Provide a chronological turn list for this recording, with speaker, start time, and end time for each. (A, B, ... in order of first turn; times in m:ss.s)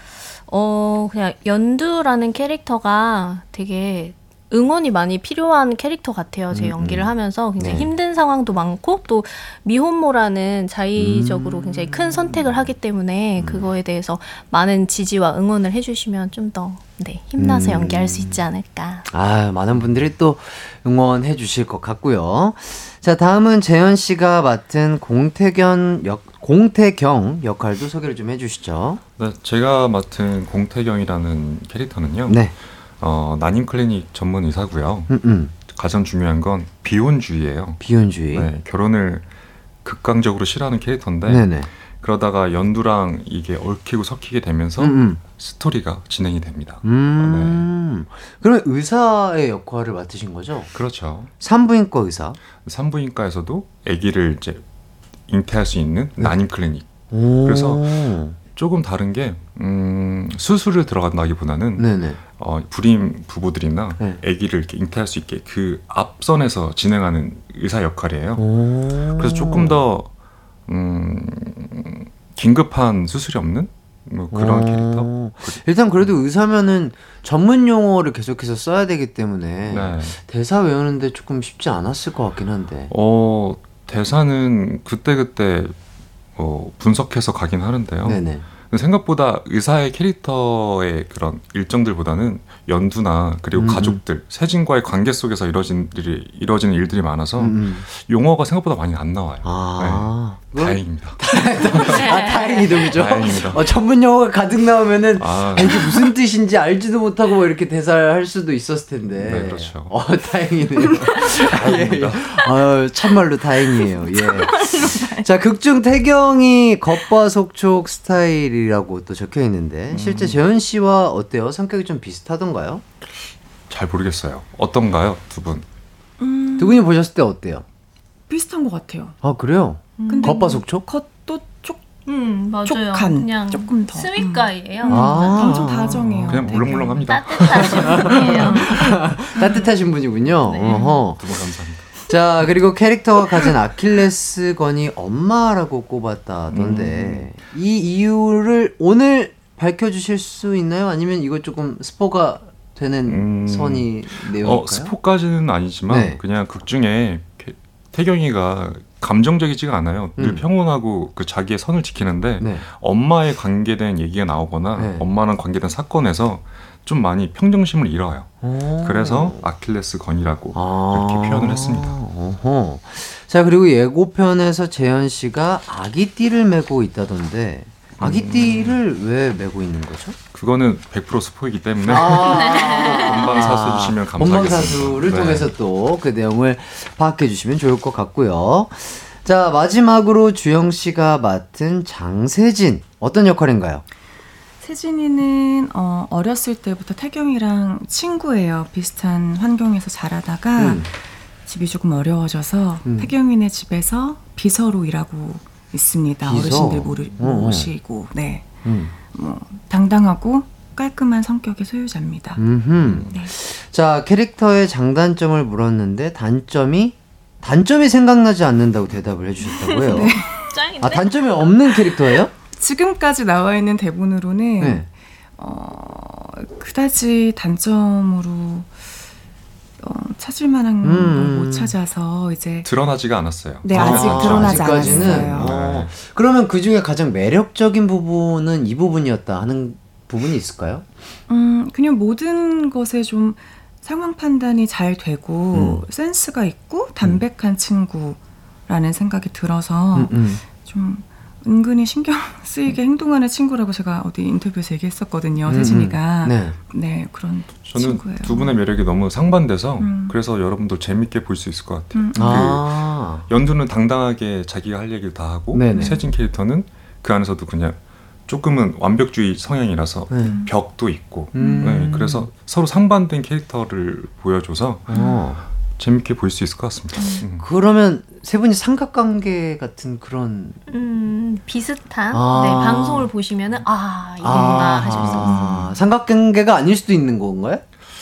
0:00.5-0:19.1 A
0:06.5-0:07.9 B
0:11.0-0:12.7 B
0:13.4-0:13.7 B
0:17.4-0:18.4 B
0:19.1-0:29.0 B
0:29.2-0:32.4 C
0:32.3-0:32.5 B
0:33.0-0:35.1 C
0:35.1-0:35.5 B
0:35.7-0:37.8 C
0:37.8-0:38.5 B
0:38.3-0:39.2 C
0:39.8-0:41.5 C
0:41.3-0:41.7 B
0:42.0-0:47.6 C
0:44.8-0:45.2 B
0:46.8-0:50.7 B
0:50.7-0:51.3 C
0:51.4-0:52.4 B
0:52.6-0:54.6 C
0:55.3-0:56.9 C
0:57.1-0:58.4 B
0:57.4-0:57.9 C
0:58.5-1:08.4 C
1:01.8-1:02.2 B
1:08.4-1:09.8 B
1:09.2-1:10.1 C
1:10.7-1:15.6 C
1:14.3-1:22.9 B
1:19.7-1:20.2 C
1:22.9-1:25.8 C
1:26.4-1:42.1 C
1:28.0-1:28.5 B
1:33.6-1:34.0 B
1:37.4-1:37.8 B
1:39.4-2:02.8 B
1:41.8-1:42.9 A
1:42.9-1:43.6 C
1:45.2-1:45.9 C
1:49.2-1:49.9 C
1:51.4-1:52.3 C
1:54.0-1:55.2 D
1:59.9-2:00.4 C
2:03.7-2:05.6 C
2:06.2-2:06.9 D
2:06.6-2:07.6 B
2:08.3-2:09.2 D
2:09.2-2:10.8 B
2:10.0-2:10.4 A
2:10.1-2:11.8 D
2:12.1-2:15.7 A
2:12.6-2:17.0 D
2:14.9-2:16.7 B
2:16.2-2:18.2 C
2:17.0-2:19.0 A
2:17.6-2:21.2 B
2:17.9-2:19.6 D
2:20.4-2:20.9 A
2:21.2-2:21.9 C
2:22.1-2:34.9 B
2:26.5-2:27.3 C
2:33.1-2:52.0 C
2:35.9-2:36.2 B
2:40.2-2:40.4 B
2:42.4-2:42.6 B
2:44.8-2:45.0 B
2:48.4-2:49.4 B
2:50.5-3:00.2 B
2:58.0-2:58.8 C
3:00.3-3:05.5 C
3:01.9-3:13.8 B
3:02.4-3:03.1 A
3:14.6-3:20.9 D
3:20.6-3:20.9 B
3:21.5-3:28.6 D
3:22.8-3:23.1 B
3:26.2-3:27.7 B
3:28.6-3:28.9 B
3:29.1-3:32.4 D
3:32.4-3:40.2 B
3:32.8-3:33.1 C
3:39.6-3:41.8 A
3:39.9-3:40.4 D
3:40.8-3:42.3 B
3:42.6-3:44.9 D
3:44.6-3:44.9 B
3:45.4-3:48.7 D
3:49.8-3:52.7 D
3:50.8-3:51.8 B
3:52.6-3:55.9 C
3:53.6-3:55.5 D
3:53.7-4:00.9 B
4:01.3-4:18.6 D
4:05.5-4:05.8 B
4:09.9-4:10.4 B
4:15.4-4:16.6 B
4:17.7-4:27.8 C
4:19.8-4:20.2 D
4:21.9-4:22.6 D
4:22.2-4:23.2 B
4:25.5-4:26.0 B
4:25.7-4:26.0 D
4:28.3-4:34.9 C
4:30.1-4:30.5 B
4:30.2-4:30.5 D
4:31.3-4:32.3 B
4:31.4-4:31.9 D
4:34.9-4:35.4 B
4:34.9-4:35.2 D
4:35.8-4:37.4 C
4:37.0-4:37.2 D
4:37.4-4:40.6 B
4:40.7-4:45.6 A
4:42.1-4:43.1 B
4:44.2-4:47.6 B
4:44.8-4:45.5 C